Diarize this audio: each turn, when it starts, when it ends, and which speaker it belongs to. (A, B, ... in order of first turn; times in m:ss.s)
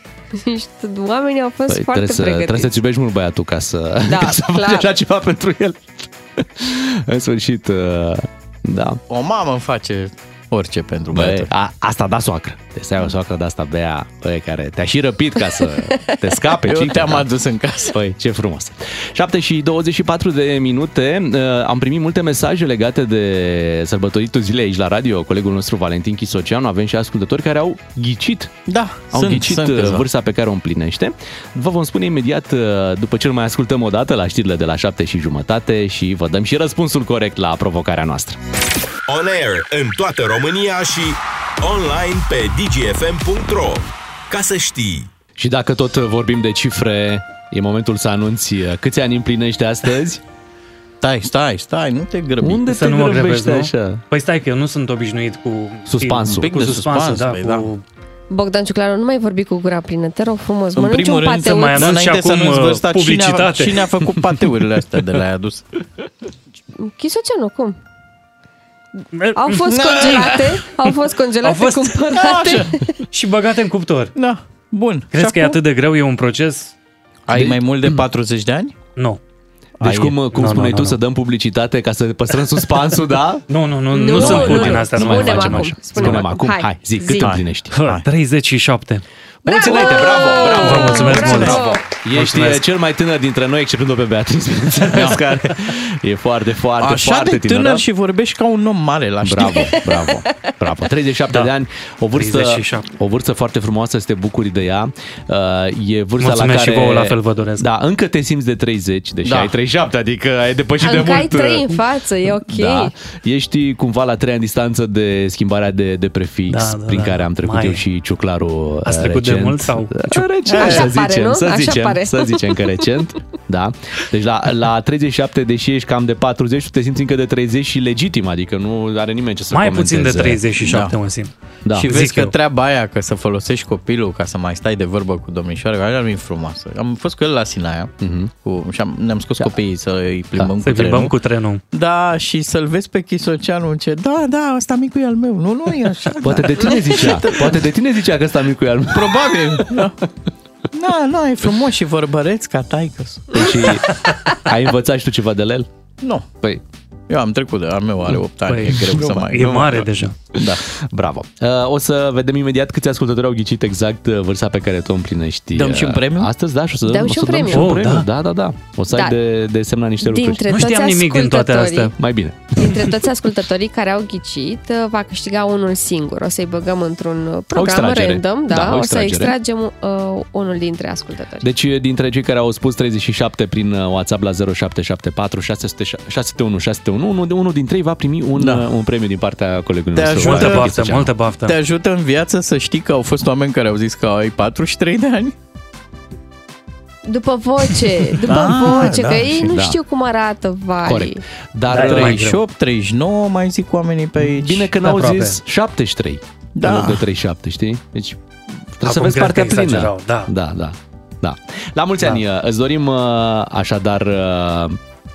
0:00.3-0:02.7 A
0:01.7-0:09.0 B
0:04.1-0:04.9 A
0:09.1-0:11.5 C
0:11.1-0:17.3 B
0:16.6-0:17.9 C
0:17.9-0:28.6 B
0:28.7-0:30.1 C
0:29.1-0:38.4 B
0:39.1-0:45.1 D
0:45.4-0:50.2 B
0:51.0-0:52.6 C
0:52.4-0:54.0 B
0:52.7-0:57.8 E
0:55.9-0:56.6 B
0:56.3-0:57.7 C
0:58.3-1:01.8 A
1:00.8-1:05.6 C
1:01.5-1:03.8 E
1:06.8-1:07.8 A
1:09.2-1:09.6 E
1:09.4-1:12.8 A
1:09.6-1:10.6 C
1:11.4-1:11.9 E
1:12.0-1:12.8 C
1:13.1-1:14.1 E
1:14.2-1:15.6 C
1:15.1-1:16.7 E
1:17.3-1:18.8 C
1:17.3-1:17.9 B
1:19.8-1:20.2 C
1:19.8-1:23.4 B
1:20.3-1:21.0 E
1:23.5-1:26.2 E
1:23.9-1:27.3 A
1:24.1-1:27.8 B
1:27.2-1:28.1 C
1:27.7-1:29.0 E
1:29.4-1:37.8 B
1:29.5-1:31.8 A
1:30.4-1:32.6 E
1:34.9-1:35.2 C
1:36.8-1:39.8 C
1:39.2-1:51.8 B
1:42.2-1:42.9 E
1:46.2-1:47.7 E
1:49.2-1:49.5 C
1:50.8-1:52.9 A
1:52.4-2:10.4 B
1:56.5-1:57.8 E
1:58.9-2:00.1 E
2:00.5-2:00.9 C
2:00.5-2:02.6 A
2:09.5-2:11.3 E
2:10.6-2:11.0 C
2:11.7-2:21.1 C
2:11.8-2:12.3 E
2:18.0-2:18.3 B
2:20.6-2:21.6 E
2:21.7-2:27.6 C
2:26.2-2:29.9 B
2:28.9-2:30.0 C
2:30.7-2:33.8 C
2:33.3-2:33.9 B
2:34.4-2:35.7 B
2:36.0-2:36.3 C
2:37.1-2:39.8 C
2:38.5-2:40.2 E
2:40.4-2:40.6 C
2:40.4-2:50.4 B
2:45.5-2:46.3 C
2:46.9-2:47.7 A
2:47.5-2:48.1 E
2:50.0-2:51.9 A
2:50.5-2:51.9 E
2:52.0-2:52.7 B
2:52.6-3:01.5 A
2:57.6-2:59.4 B
3:01.4-3:11.1 B
3:08.4-3:08.7 C
3:10.0-3:10.8 C
3:10.2-3:11.6 E
3:11.5-3:15.3 C
3:17.1-3:21.2 A
3:18.2-3:19.5 C
3:19.5-3:19.8 B
3:20.8-3:22.2 B
3:21.7-3:22.4 E
3:21.7-3:24.7 C
3:24.3-3:28.2 B
3:24.8-3:25.4 E
3:26.6-3:27.0 C
3:28.7-3:34.8 B
3:28.8-3:30.3 E